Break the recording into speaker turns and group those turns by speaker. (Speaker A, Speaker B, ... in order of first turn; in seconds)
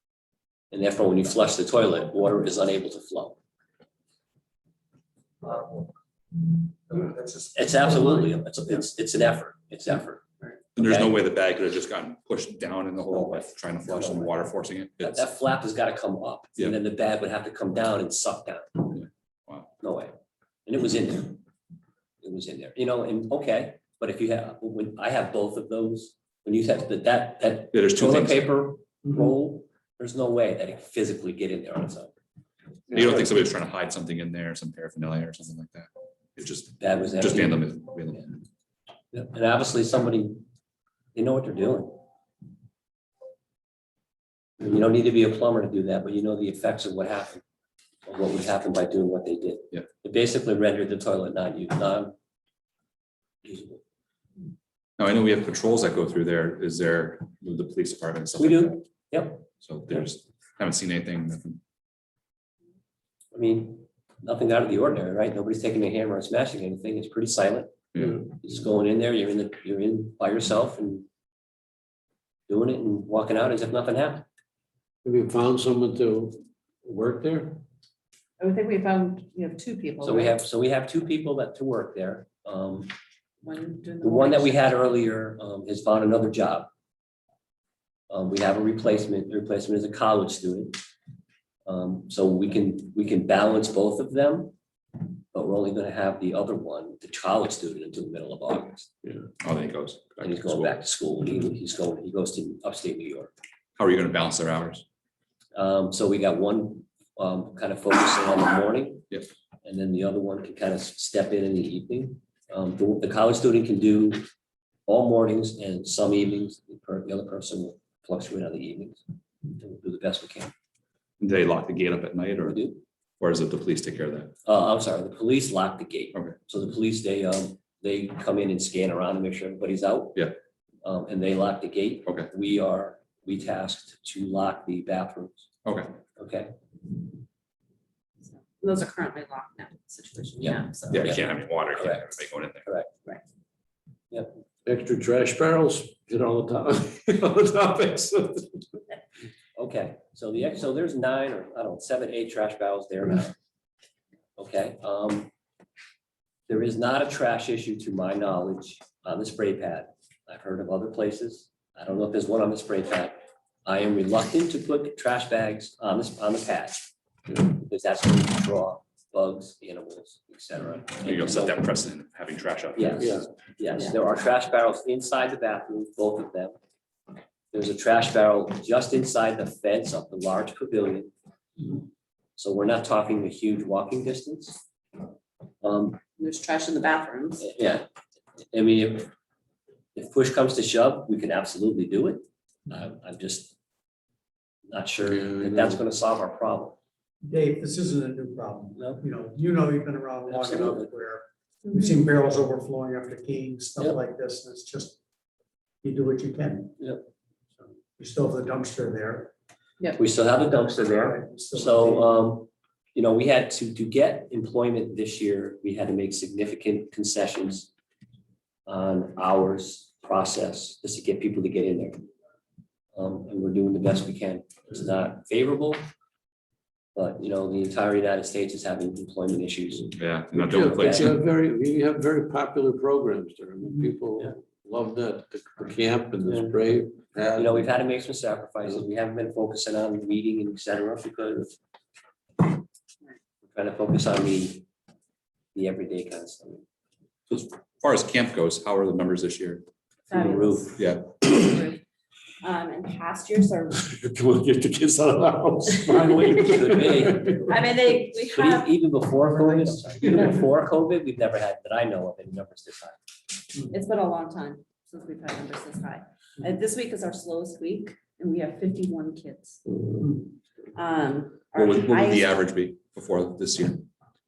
Speaker A: 0.7-3.4, 5.5-5.8, 6.9-11.2, 13.1-14.3, 15.0-18.9, 19.8-20.1, 20.7-21.4, 22.2-32.1, 36.8-37.6, 39.1-40.5, 41.1-42.0, 44.6-47.4, 48.1-52.1, 53.4-53.8, 58.4-59.5, 63.3-71.1, 72.5-74.2, 80.0-82.9, 84.0-86.7, 88.1-90.8, 91.7-94.5, 95.3-98.9, 100.2-103.3, 105.5-109.1, 109.6-114.2, 114.9-119.0, 119.5-120.5, 122.4-122.8, 124.5-130.3, 130.8-135.5, 136.2-136.5, 140.4-141.2, 141.8-142.1, 142.6-142.9, 149.6-153.4, 154.4-155.3, 156.5-166.9, 167.5-171.6, 172.8-176.6, 177.5-181.1, 182.4-184.6, 185.6-186.0, 187.4-187.8, 188.5-189.1, 190.0-193.6, 194.7-196.8, 198.8-199.0, 200.3-200.9, 210.0-217.7, 218.7-222.0, 222.9-225.8, 226.9-231.2, 236.2-236.6, 237.3-241.5, 243.5-244.7, 245.5-246.6, 250.1-250.7, 255.8-257.6, 258.3-263.0
Speaker B: 10.8-15.3, 18.9-19.7, 27.7-28.5, 32.9-38.4, 55.0-58.8, 59.5-61.6, 67.9-68.2, 99.4-100.8, 103.8-104.8, 121.2-122.6, 123.2-124.3, 135.7-135.9, 140.9-142.7, 171.0-173.2, 230.0-231.2, 247.3-249.7, 250.8-251.2, 271.6-273.9
Speaker C: 75.0-77.7, 144.7-148.7, 173.0-173.3, 195.1-195.8, 230.3-237.7, 253.7-257.5, 269.7-270.2
Speaker D: 78.4-80.4, 83.4-84.7, 138.3-141.2, 186.2-187.5, 201.7-202.0, 250.1-251.8, 252.4-253.8, 257.4-258.7, 260.1-260.4, 263.7-269.6, 270.8-272.4
Speaker E: 197.2-205.0, 205.8-206.8, 208.0-209.3, 210.8-212.1, 259.3-260.3